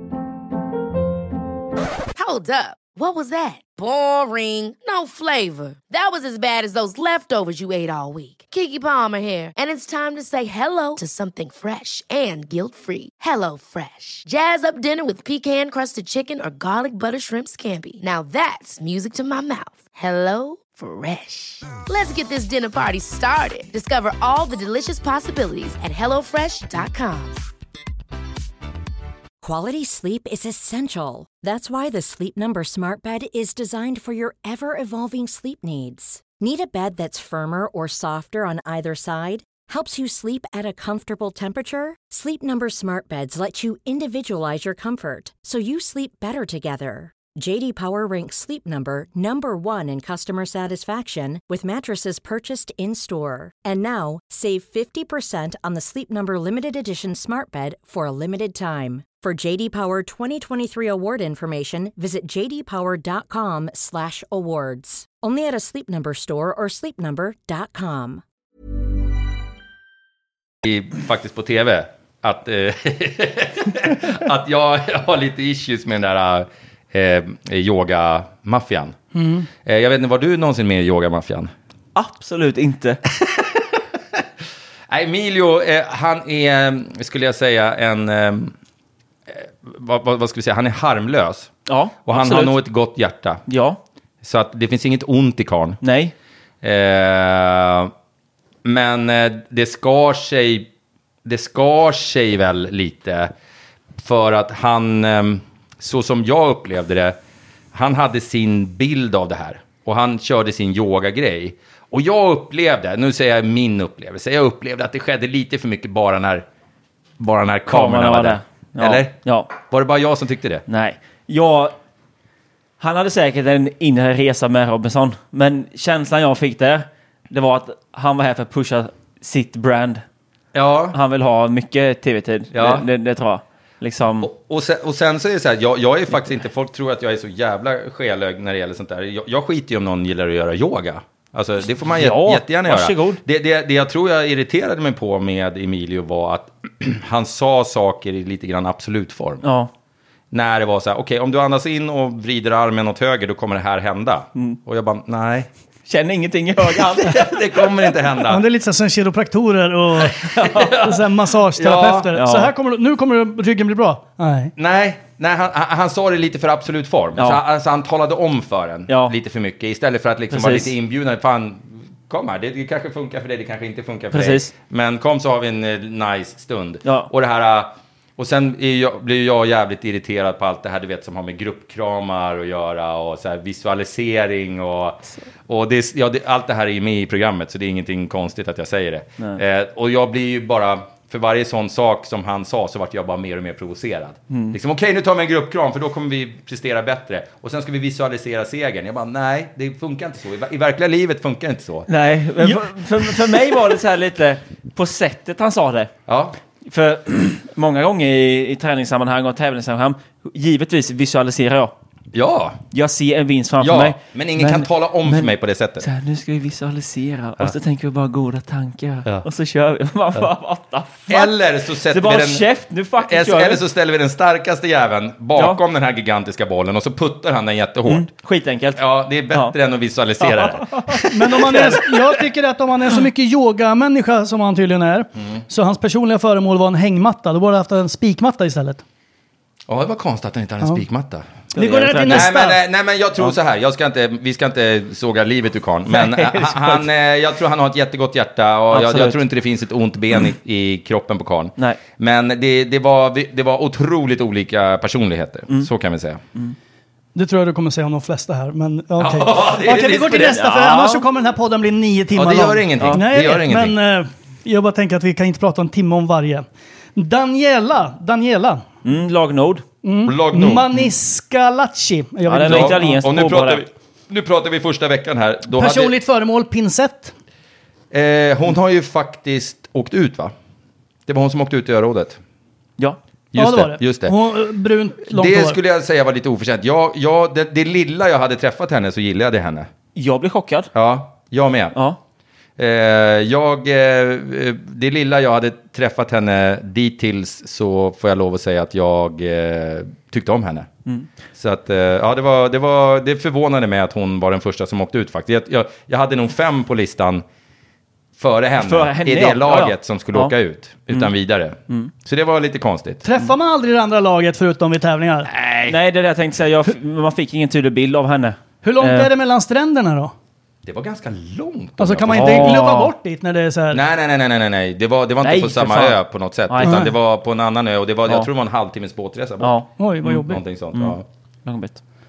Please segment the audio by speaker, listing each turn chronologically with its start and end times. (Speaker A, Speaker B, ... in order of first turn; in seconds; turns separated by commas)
Speaker A: 2.1-27.4, Speaker B: 29.4-68.2, Speaker C: 70.6-79.0, Speaker D: 79.1-79.5, Speaker C: 79.6-81.5, Speaker E: 81.9-83.0, Speaker C: 83.2-83.6, Speaker C: 84.9-88.5, Speaker C: 89.3-91.5, Speaker E: 91.7-92.6, Speaker C: 92.0-93.4, Speaker E: 93.5-93.8, Speaker C: 94.2-95.8, Speaker E: 95.8-96.1, Speaker C: 96.6-97.9, Speaker C: 98.6-100.7, Speaker C: 101.2-103.3, Speaker C: 104.0-107.2, Speaker C: 107.7-116.4, Speaker C: 117.2-120.6, Speaker E: 117.7-119.5, Speaker E: 120.7-121.7, Speaker E: 122.8-130.0, Speaker C: 130.5-131.0, Speaker E: 130.9-134.3, Speaker C: 132.5-132.9, Speaker C: 134.2-149.4, Speaker E: 141.9-143.2, Speaker E: 149.4-149.7, Speaker C: 150.3-155.5, Speaker E: 155.9-157.3, Speaker C: 156.7-158.4, Speaker D: 158.3-164.5, Speaker C: 160.2-162.1, Speaker E: 160.4-160.7, Speaker E: 162.1-162.5, Speaker C: 164.6-201.9, Speaker E: 168.9-169.1, Speaker E: 170.3-170.7, Speaker E: 174.1-174.5, Speaker E: 176.8-177.1, Speaker E: 201.9-205.9, Speaker C: 206.1-206.4, Speaker E: 206.7-211.7, Speaker C: 212.1-212.6, Speaker E: 212.7-221.3, Speaker C: 213.6-215.9, Speaker C: 221.1-222.4, Speaker E: 221.9-223.6, Speaker C: 223.0-228.1, Speaker E: 227.9-229.6, Speaker C: 228.8-230.9, Speaker E: 230.2-232.1, Speaker D: 231.0-238.8, Speaker C: 239.7-241.3, Speaker E: 241.5-242.3, Speaker D: 241.5-242.6, Speaker C: 242.0-256.2, Speaker E: 245.9-246.8, Speaker E: 248.7-249.2, Speaker D: 257.1-268.6, Speaker C: 259.0-260.4, Speaker E: 260.3-261.0, Speaker C: 262.1-263.7, Speaker E: 268.8-269.6, Speaker D: 269.8-273.0, Speaker C: 270.1-270.7, Speaker E: 272.3-273.6, Speaker C: 272.4-275.9, Speaker D: 275.5-277.1, Speaker C: 277.9-280.3, Speaker C: 281.1-282.2, Speaker C: 283.3-284.2, Speaker D: 283.4-285.6, Speaker C: 285.1-289.7, Speaker E: 289.9-290.7, Speaker C: 290.7-291.8, Speaker C: 292.6-300.7, Speaker C: 301.3-307.2, Speaker C: 308.2-313.0, Speaker E: 308.6-310.3, Speaker D: 313.0-315.3, Speaker C: 315.2-315.8, Speaker E: 315.7-319.1, Speaker D: 318.6-320.1, Speaker C: 320.6-322.6, Speaker D: 321.8-323.8, Speaker E: 322.1-322.9, Speaker C: 323.7-329.5, Speaker E: 325.2-326.0, Speaker E: 326.5-326.8, Speaker D: 326.6-326.9, Speaker E: 329.4-330.2, Speaker D: 329.8-330.4, Speaker C: 330.1-331.0, Speaker E: 330.7-331.8